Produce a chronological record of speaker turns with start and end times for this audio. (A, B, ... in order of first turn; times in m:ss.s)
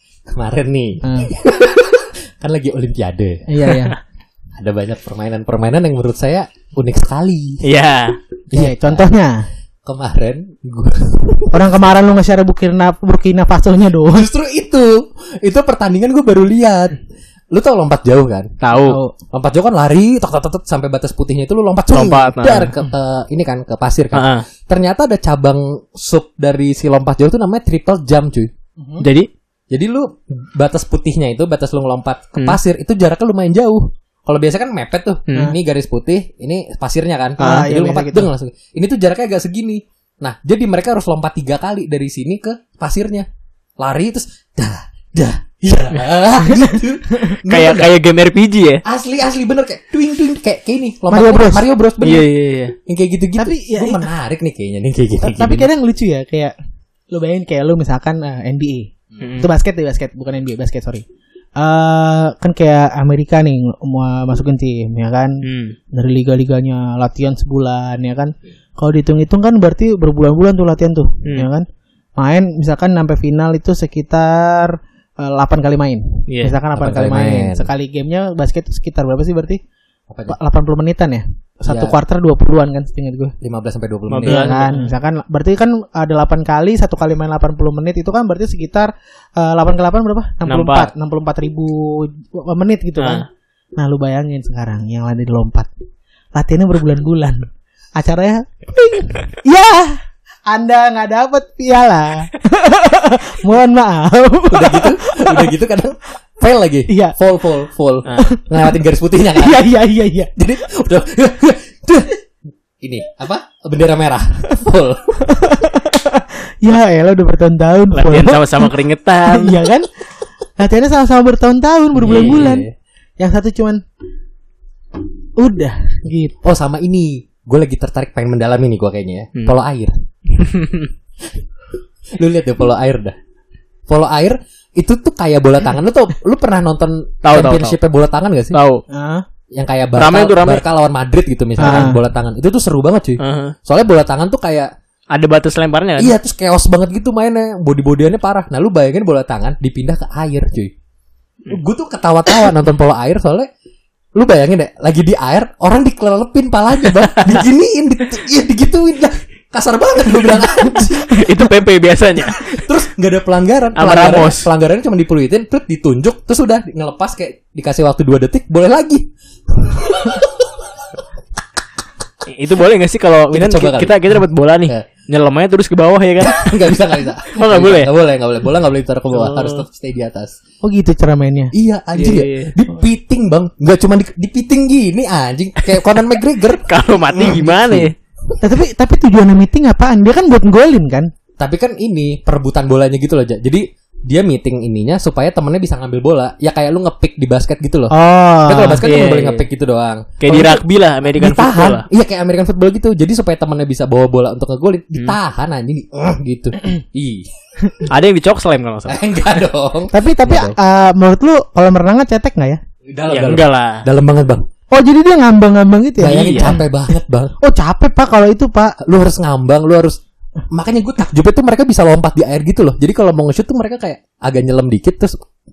0:00.3-0:03.5 A
0:01.0-0:01.3 B
0:03.5-0:04.0 B
0:04.5-0:07.6 A
0:07.6-0:08.2 C
0:08.5-0:09.1 A
0:08.5-0:09.4 B
0:09.8-0:11.8 A
0:11.5-0:14.3 B
0:14.1-0:17.0 A
0:17.5-0:18.5 A
0:18.6-0:19.0 C
0:18.7-0:19.1 B
0:19.3-0:28.5 A
0:21.9-0:22.7 C
0:24.1-0:24.5 C
0:28.8-0:29.0 B
0:29.0-0:29.3 C
0:29.7-0:43.2 A
0:35.3-0:35.5 C
0:37.4-0:38.3 B
0:43.8-0:47.9 A
0:46.4-0:47.4 B
0:47.4-0:48.8 C
0:48.8-0:52.3 A
0:51.1-0:51.7 B
0:52.0-0:52.7 C
0:52.9-0:55.7 A
0:53.4-0:54.1 B
0:55.2-0:56.5 B
0:57.1-1:01.0 B
0:59.2-0:59.5 C
1:01.6-1:05.4 B
1:05.4-1:05.8 C
1:05.9-1:11.6 B
1:12.2-1:19.6 B
1:16.3-1:16.6 C
1:16.7-1:17.7 A
1:20.1-1:20.4 A
1:20.3-1:23.3 B
1:21.7-1:22.0 A
1:23.4-1:24.5 A
1:24.1-1:24.9 C
1:24.2-1:33.2 B
1:30.4-1:30.9 C
1:33.0-1:33.2 C
1:33.8-1:35.7 B
1:36.3-1:45.5 B
1:44.5-1:49.7 A
1:46.9-1:47.2 B
1:48.2-1:48.8 B
1:49.3-1:50.3 B
1:50.4-1:52.2 A
1:52.8-1:55.2 A
1:55.2-1:58.7 B
1:57.9-1:59.6 C
1:59.2-1:59.9 B
2:00.6-2:02.7 B
2:02.0-2:02.4 C
2:02.0-2:02.7 A
2:03.2-2:03.8 B
2:05.4-2:06.4 B
2:06.4-2:09.9 A
2:10.3-2:10.9 C
2:12.2-2:13.2 A
2:13.9-2:18.6 A
2:17.2-2:17.8 C
2:18.5-2:18.8 C
2:18.9-2:19.2 B
2:19.5-2:24.7 A
2:20.0-2:20.6 C
2:21.6-2:22.0 B
2:23.2-2:23.6 C
2:25.1-2:26.1 C
2:26.0-2:30.7 A
2:31.5-2:33.5 A
2:34.2-2:41.3 A
2:37.0-2:37.4 C
2:41.1-2:42.4 C
2:42.4-2:50.5 A
2:43.7-2:44.5 C
2:52.3-2:56.5 C
2:53.3-2:54.0 A
2:56.2-3:00.4 A
2:57.3-2:57.9 C
2:59.1-2:59.6 C
3:00.6-3:01.5 B
3:01.5-3:07.9 A
3:01.9-3:02.6 C
3:06.6-3:07.9 C
3:08.4-3:11.1 B
3:11.4-3:17.9 A
3:17.9-3:18.8 B
3:18.4-3:27.3 A
3:18.8-3:19.4 C
3:20.2-3:21.8 C
3:27.9-3:29.0 C
3:28.9-3:30.6 A
3:29.9-3:32.6 B
3:32.8-3:34.5 A
3:33.1-3:33.8 C
3:34.7-3:36.7 B
3:36.0-3:37.3 A
3:36.0-3:36.6 C
3:37.4-3:38.8 B
3:38.8-3:40.0 A
3:40.5-3:45.2 A